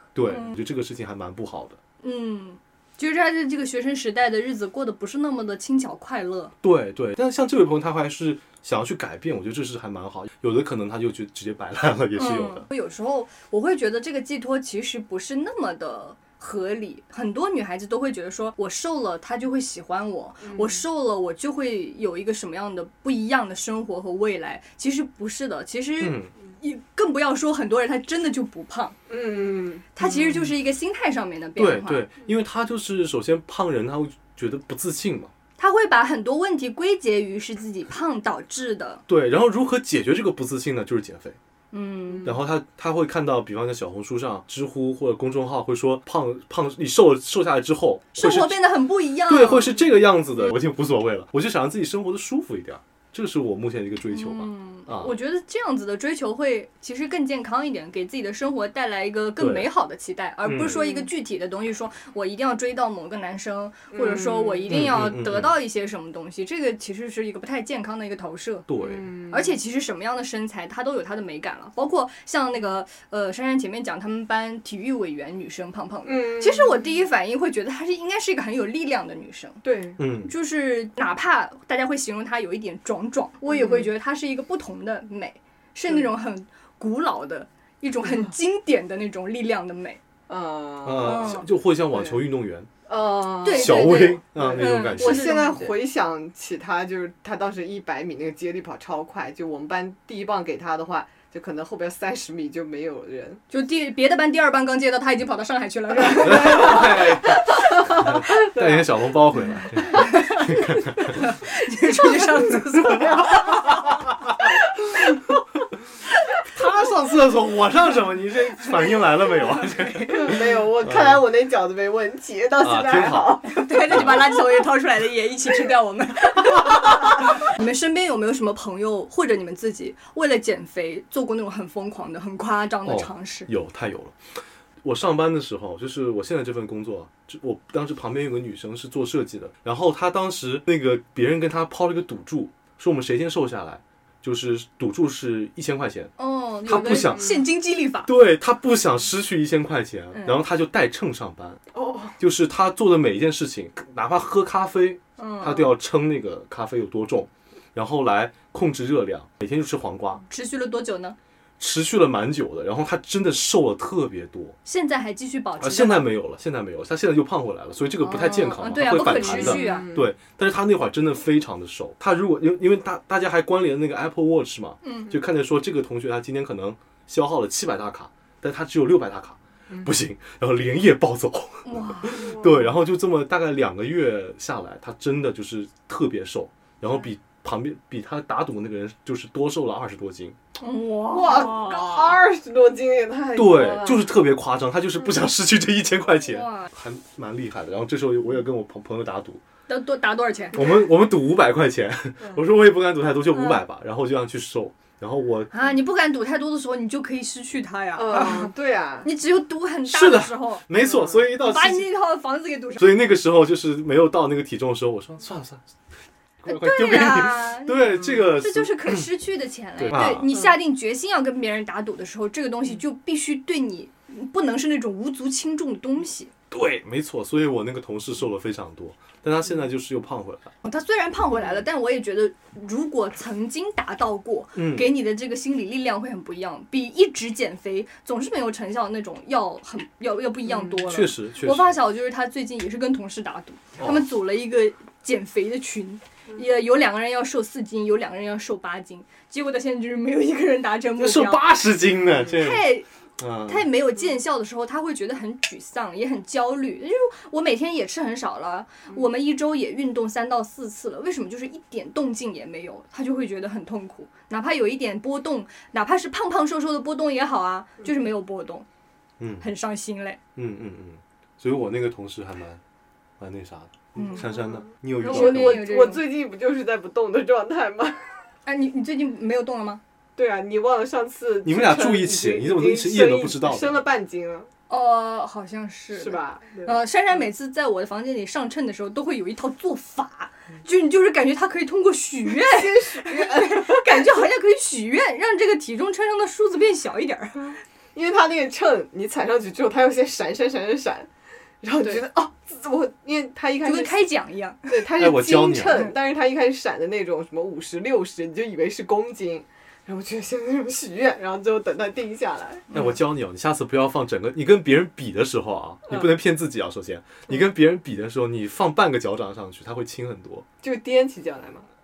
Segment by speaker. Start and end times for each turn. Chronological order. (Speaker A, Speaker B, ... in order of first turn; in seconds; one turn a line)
Speaker A: 0.1-1.8
Speaker B: 0.3-0.6
Speaker B: 2.0-6.5
Speaker A: 6.6-12.7
Speaker B: 12.2-29.0
Speaker C: 20.4-20.8
Speaker A: 26.0-26.3
Speaker C: 29.1-29.9
Speaker B: 30.0-32.1
Speaker A: 30.0-30.5
Speaker A: 31.6-35.3
Speaker B: 35.6-39.0
Speaker A: 39.1-41.4
Speaker B: 41.7-42.3
Speaker A: 42.2-48.6
Speaker B: 48.1-49.8
Speaker A: 49.2-55.1
Speaker B: 54.1-68.7
Speaker A: 59.4-59.7
Speaker A: 60.5-60.8
Speaker C: 60.8-61.1
Speaker C: 63.9-64.8
Speaker A: 64.7-65.5
Speaker A: 68.7-69.1
Speaker C: 68.8-69.6
Speaker B: 69.3-79.6
Speaker C: 76.1-76.9
Speaker C: 79.6-80.0
Speaker A: 80.0-80.3
Speaker B: 80.2-90.0
Speaker C: 83.5-83.9
Speaker C: 90.3-92.2
Speaker A: 90.8-92.7
Speaker B: 91.0-91.5
Speaker C: 92.9-103.4
Speaker B: 93.4-95.7
Speaker A: 93.5-95.3
Speaker B: 103.5-106.9
Speaker C: 106.1-109.2
Speaker A: 106.2-111.2
Speaker B: 109.9-113.8
Speaker C: 113.0-113.6
Speaker A: 116.5-121.2
Speaker C: 120.1-123.6
Speaker A: 122.6-123.4
Speaker B: 123.5-133.5
Speaker A: 123.9-124.3
Speaker A: 132.8-134.2
Speaker A: 134.8-146.1
Speaker B: 146.2-148.1
Speaker A: 146.7-147.3
Speaker C: 146.8-147.3
Speaker A: 148.1-151.6
Speaker B: 150.1-150.4
Speaker C: 151.7-152.2
Speaker A: 152.2-160.2
Speaker B: 155.2-155.7
Speaker B: 160.3-161.2
Speaker A: 161.6-164.6
Speaker B: 164.7-166.1
Speaker A: 165.6-190.4
Speaker B: 168.0-169.9
Speaker C: 169.0-170.1
Speaker B: 174.8-175.1
Speaker B: 181.7-182.4
Speaker C: 182.2-182.6
Speaker B: 190.6-192.2
Speaker C: 191.1-194.1
Speaker A: 193.3-199.4
Speaker B: 196.3-196.7
Speaker B: 199.7-200.7
Speaker A: 200.5-205.5
Speaker B: 203.3-203.6
Speaker B: 205.5-208.5
Speaker C: 208.0-209.1
Speaker B: 209.0-210.7
Speaker A: 209.9-211.9
Speaker C: 210.8-211.2
Speaker B: 211.4-212.9
Speaker A: 212.8-215.6
Speaker A: 216.4-219.1
Speaker B: 216.4-226.3
Speaker A: 219.8-220.3
Speaker A: 226.5-230.5
Speaker B: 230.6-251.6
Speaker A: 234.6-234.9
Speaker A: 240.8-241.8
Speaker A: 243.8-244.1
Speaker A: 251.0-252.7
Speaker B: 252.3-252.9
Speaker A: 253.2-253.7
Speaker B: 253.4-268.7
Speaker A: 269.2-269.5
Speaker B: 269.4-270.2
Speaker A: 270.4-272.6
Speaker A: 273.2-275.6
Speaker B: 274.0-274.3
Speaker C: 274.3-278.1
Speaker B: 275.0-276.0
Speaker B: 278.5-279.8
Speaker C: 280.2-284.5
Speaker A: 281.4-283.8
Speaker B: 284.7-297.6
Speaker C: 285.9-286.8
Speaker C: 292.3-294.1
Speaker C: 297.9-301.1
Speaker C: 301.6-304.1
Speaker B: 303.6-304.9
Speaker C: 304.7-312.8
Speaker A: 305.0-305.8
Speaker A: 312.7-320.5
Speaker C: 320.6-321.7